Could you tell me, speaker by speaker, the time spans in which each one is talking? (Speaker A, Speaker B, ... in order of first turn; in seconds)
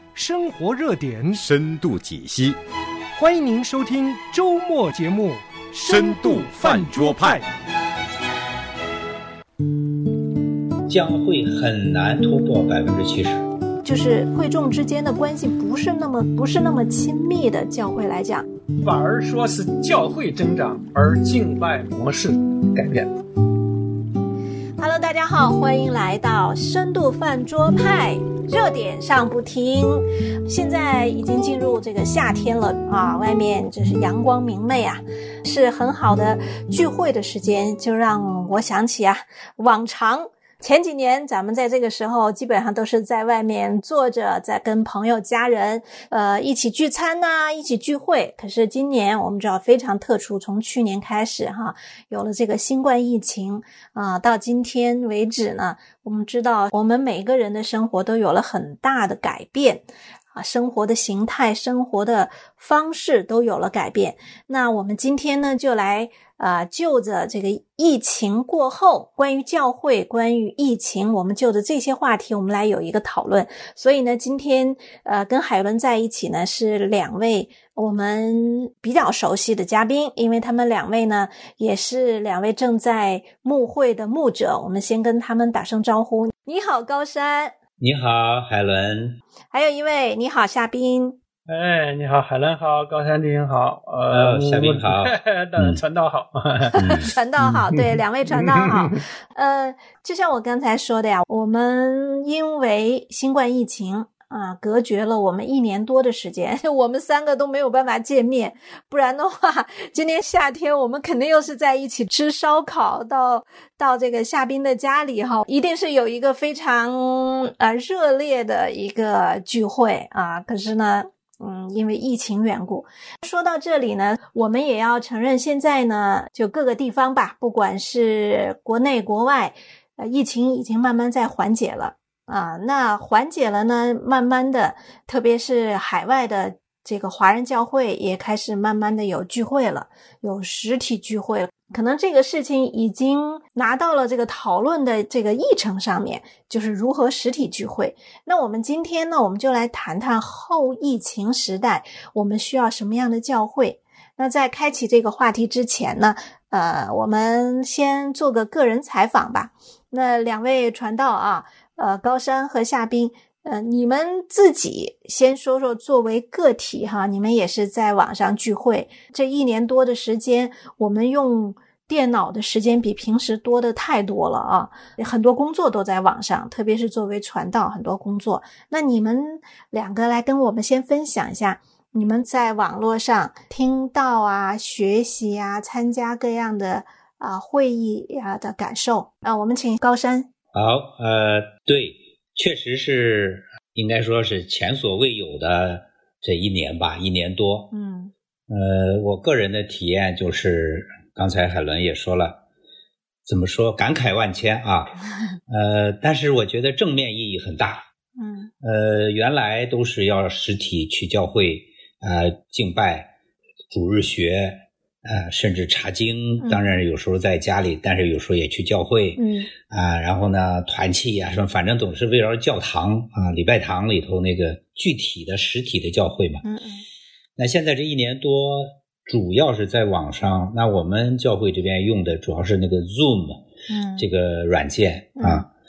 Speaker A: 0.1-1.4, 3.1-7.4
Speaker B: 1.3-2.6, 5.8-7.4
Speaker C: 10.9-13.4, 87.8-89.2, 94.1-95.8, 96.8-97.1, 190.5-197.7, 198.5-202.4, 203.2-204.9, 205.5-207.9, 208.6-213.1, 213.7-226.4, 227.4-233.4, 234.0-235.5
Speaker D: 13.8-18.5, 24.8-87.5, 89.5-91.2, 96.7-190.3, 197.7-198.1, 208.2-208.5, 216.4-216.7, 219.2-219.5, 226.4-226.8, 233.7-234.1, 235.2-235.4
Speaker E: 18.8-23.1, 91.5-99.0